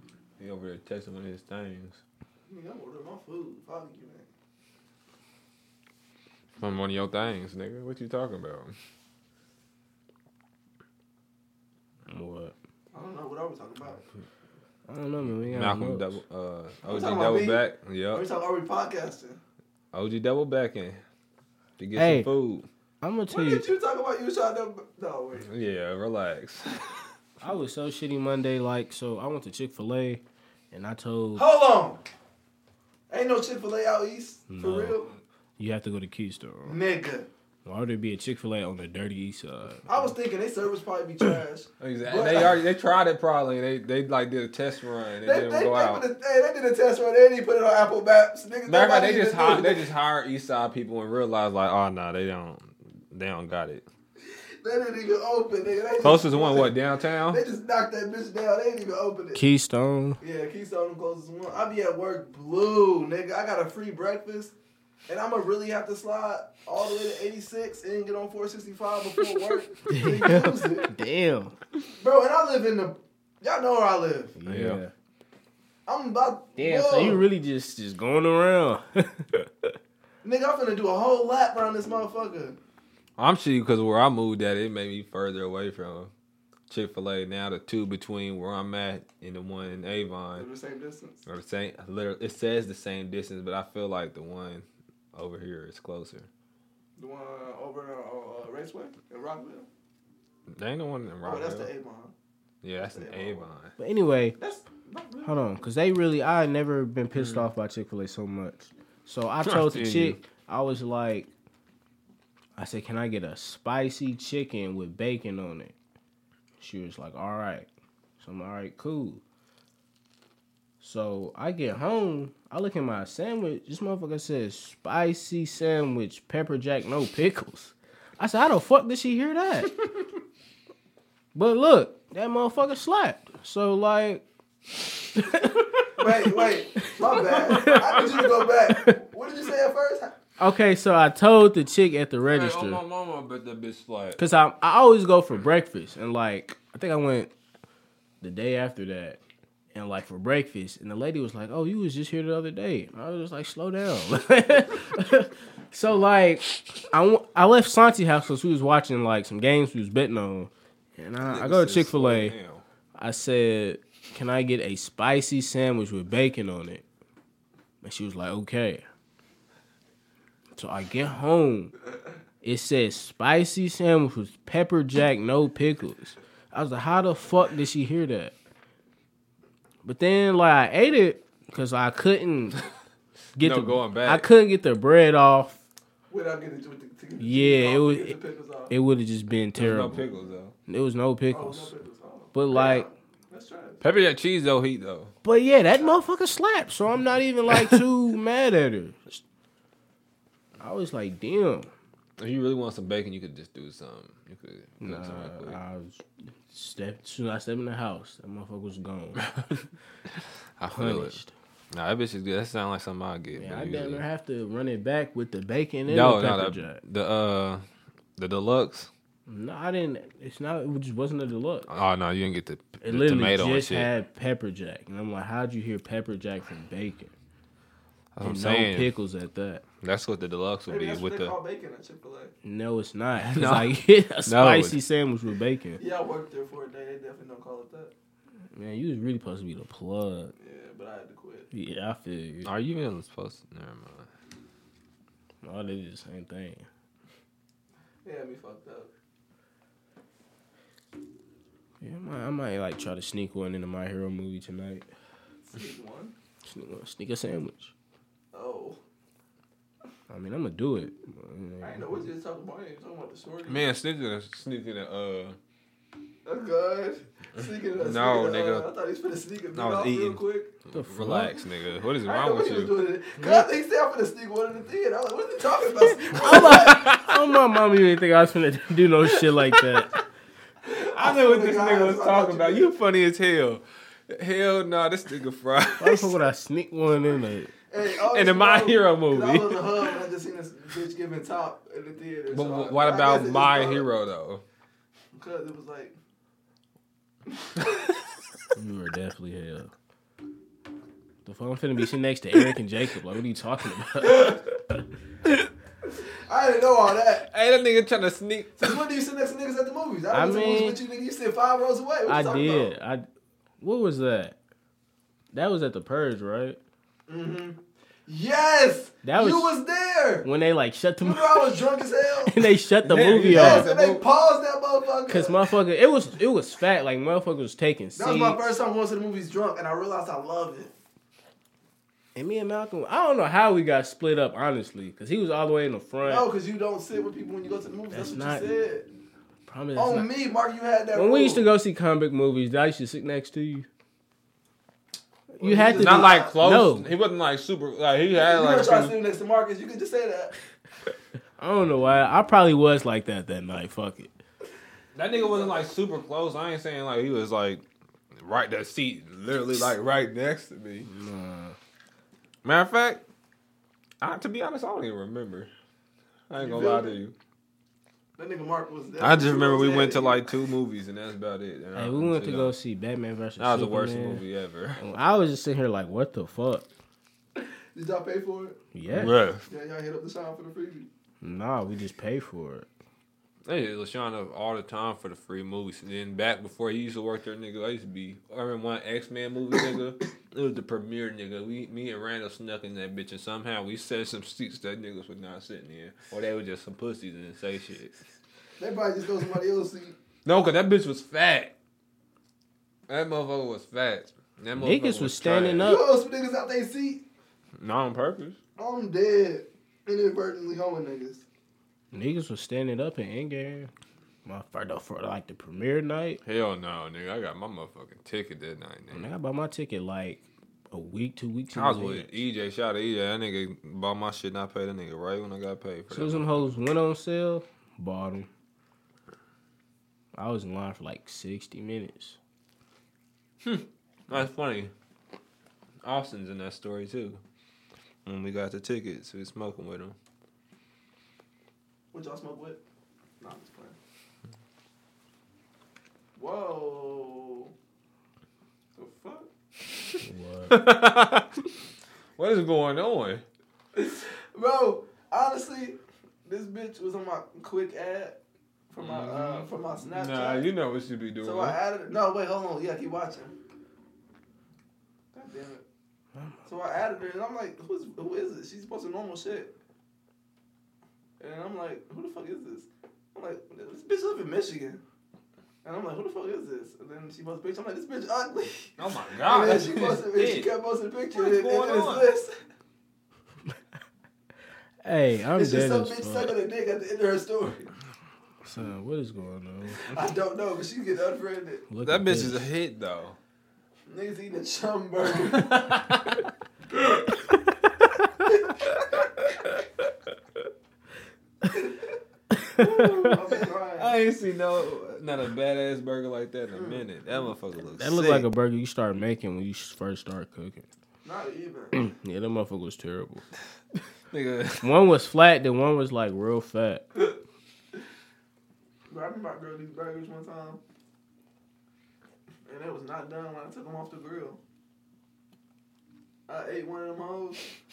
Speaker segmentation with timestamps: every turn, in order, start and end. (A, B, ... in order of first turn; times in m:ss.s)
0:00.4-0:02.0 A
0:02.5-0:04.3 B
0:06.6-0:08.7 A
0:12.1-0:12.5 C
0:12.9-0:14.0 B
0:14.9-0:16.2 C
0:15.4-0:18.2 A
0:16.8-0:19.4 B
0:19.9-0:21.0 A
0:21.8-0:22.7 A
0:22.0-0:22.3 C
0:23.0-0:23.7 C
0:23.3-0:25.5 B
0:25.4-0:27.0 A
0:27.4-0:31.4 C
0:31.4-0:32.0 B
0:33.1-0:35.1 B
0:34.5-0:35.0 C
0:35.6-0:36.8 C
0:36.7-0:37.3 B
0:37.6-0:39.9 C
0:39.9-0:42.6 B
0:41.8-0:46.0 A
0:45.2-0:49.9 B
0:48.7-0:53.9 A
0:54.3-0:56.8 B
0:56.0-0:57.4 A
0:57.3-0:59.4 B
0:59.4-1:00.2 C
1:00.2-1:04.5 B
1:05.1-1:10.9 B
1:09.9-1:11.6 C
1:12.0-1:14.4 B
1:14.4-1:14.9 C
1:14.5-1:14.8 A
1:15.9-1:17.2 B
1:16.6-1:19.7 C
1:20.2-1:22.6 B
1:23.2-1:26.1 A
1:26.7-1:30.5 A
1:30.4-1:31.2 B
1:31.3-1:36.3 A
1:37.0-1:39.7 B
1:40.5-1:41.7 A
1:41.2-1:42.1 B
1:42.6-1:43.7 A
1:42.8-1:43.5 B
1:43.8-1:44.4 C
1:44.4-1:45.6 B
1:45.2-1:51.3 C
1:47.2-1:47.5 A
1:49.4-1:50.2 A
1:52.6-1:55.7 C
1:56.6-1:57.7 C
1:58.2-1:59.2 C
2:00.8-2:09.7 C
2:11.4-2:14.2 C
2:15.1-2:19.0 C
2:16.0-2:20.1 B
2:20.4-2:22.8 C
2:22.3-2:24.2 A
2:24.2-2:27.3 C
2:28.2-2:29.2 C
2:29.7-2:42.4 C
2:41.2-2:42.6 A
2:43.0-2:46.8 C
2:47.8-2:48.9 C
2:50.6-2:51.7 C
2:52.4-2:58.3 C
2:59.8-3:02.6 C
3:03.4-3:05.6 C
3:03.4-3:04.3 A
3:06.1-3:08.7 B
3:07.2-3:08.2 C
3:08.7-3:10.1 C
3:09.6-3:10.6 A
3:10.7-3:11.7 C
3:11.3-3:13.8 B
3:12.3-3:12.9 C
3:13.8-3:15.1 A
3:15.2-3:19.2 C
3:17.5-3:17.8 A
3:20.6-3:21.7 C
3:22.2-3:25.6 A
3:24.8-3:29.3 C
3:30.6-3:31.2 A
3:30.7-3:31.3 C
3:31.7-3:34.0 A
3:33.4-3:36.8 C
3:35.9-3:37.6 A
3:38.2-3:38.9 A
3:39.3-3:41.7 C
3:41.7-3:43.9 A
3:42.8-3:47.1 C
3:48.1-3:48.9 A
3:48.2-3:49.6 C
3:49.8-3:51.4 A
3:50.7-3:52.3 B
3:52.4-3:55.8 C
3:53.2-3:54.8 A
3:55.8-3:57.9 B
3:58.5-4:00.3 C
4:00.4-4:01.5 B
4:01.5-4:02.5 C
4:02.4-4:04.1 A
4:05.4-4:06.7 C
4:08.0-4:08.9 B
4:11.8-4:14.9 C
4:15.5-4:16.1 B
4:16.4-4:17.7 C
4:18.3-4:18.8 B
4:20.1-4:22.0 C
4:21.6-4:23.6 B
4:23.5-4:25.4 A
4:26.3-4:30.5 B
4:27.8-4:28.7 A
4:29.5-4:32.7 A
4:30.7-4:31.4 C
4:32.0-4:37.0 B
4:33.2-4:33.5 C
4:35.8-4:39.9 C
4:36.2-4:37.1 A
4:39.1-4:40.0 A
4:40.7-4:42.7 B
4:40.8-4:46.1 A
4:45.8-4:47.5 C
4:47.7-4:53.9 B
4:48.0-4:50.0 A
4:52.3-4:54.4 A
4:55.1-4:56.0 B
4:57.3-4:57.7 B
4:58.6-4:59.7 C
5:01.2-5:04.8 C
5:04.0-5:04.4 B
5:06.0-5:07.3 B
5:07.3-5:08.8 A
5:08.6-5:12.7 B
5:10.1-5:10.8 C
5:12.1-5:13.1 C
5:13.6-5:14.4 C
5:15.3-5:16.6 C
5:17.1-5:20.3 B
5:19.0-5:19.6 C
5:20.2-5:21.6 C
5:21.0-5:25.5 B
5:22.3-5:23.7 C
5:22.8-5:24.0 A
5:25.1-5:28.4 C
5:28.0-5:30.7 B
5:32.1-5:36.3 C
5:36.0-5:38.9 B
5:37.9-5:38.5 C
5:39.5-5:40.1 C
5:39.8-5:41.4 B
5:40.9-5:43.7 C
5:45.3-5:46.9 C
5:45.4-5:46.3 B
5:45.8-5:49.0 A
5:48.1-5:50.3 B
5:51.4-5:54.1 C
5:55.0-5:57.6 A
5:55.1-5:55.7 B
5:58.2-6:00.9 A
6:00.8-6:01.6 C
6:02.4-6:03.0 A
6:04.0-6:05.5 A
6:06.3-6:07.1 A
6:06.4-6:07.0 B
6:08.2-6:10.3 B
6:09.0-6:12.5 A
6:11.8-6:14.2 C
6:13.4-6:14.8 A
6:14.8-6:16.7 C
6:17.4-6:18.6 B
6:18.7-6:19.1 C
6:18.9-6:19.4 A
6:19.4-6:20.9 B
6:21.2-6:22.7 C
6:23.4-6:38.1 A
6:38.6-6:40.0 B
6:40.2-6:41.5 A
6:42.9-6:45.7 A
6:44.6-6:45.8 C
6:45.6-6:47.0 B
6:47.6-6:48.4 A
6:48.6-6:51.2 B
6:51.9-6:53.7 C
6:54.2-6:56.2 C
6:56.2-6:59.1 A
6:58.9-7:02.2 C
7:01.5-7:06.4 A
7:05.9-7:08.3 C
7:10.1-7:12.2 C
7:13.4-7:14.7 A
7:15.8-7:17.2 A
7:18.1-7:20.0 A
7:21.9-7:22.6 B
7:23.2-7:23.8 B
7:26.2-7:27.5 B
7:28.8-7:29.3 B
7:30.0-7:30.6 C
7:30.5-7:31.3 A
7:32.2-7:33.2 A
7:33.7-7:38.2 B
7:38.7-7:40.5 B
7:38.8-7:41.6 A
7:41.2-7:43.3 B
7:45.1-7:45.6 B
7:46.4-7:49.5 B
7:51.2-7:54.8 B
7:55.6-8:02.3 B
7:58.8-8:00.5 A
8:01.1-8:02.1 A
8:04.8-8:06.3 C
8:05.4-8:07.7 B
8:08.4-8:09.8 C
8:09.9-8:11.7 B
8:11.7-8:12.5 C
8:11.8-8:13.2 A
8:13.9-8:15.7 B
8:15.2-8:16.3 A
8:21.5-8:21.8 B
8:22.3-8:23.1 C
8:22.6-8:23.9 B
8:23.3-8:28.3 A
8:26.5-8:26.9 B
8:27.8-8:30.7 C
8:31.0-8:31.7 B
8:31.7-8:33.3 C
8:34.1-8:34.7 A
8:34.6-8:36.9 C
8:38.9-8:40.6 B
8:42.5-8:44.4 B
8:46.3-8:47.4 B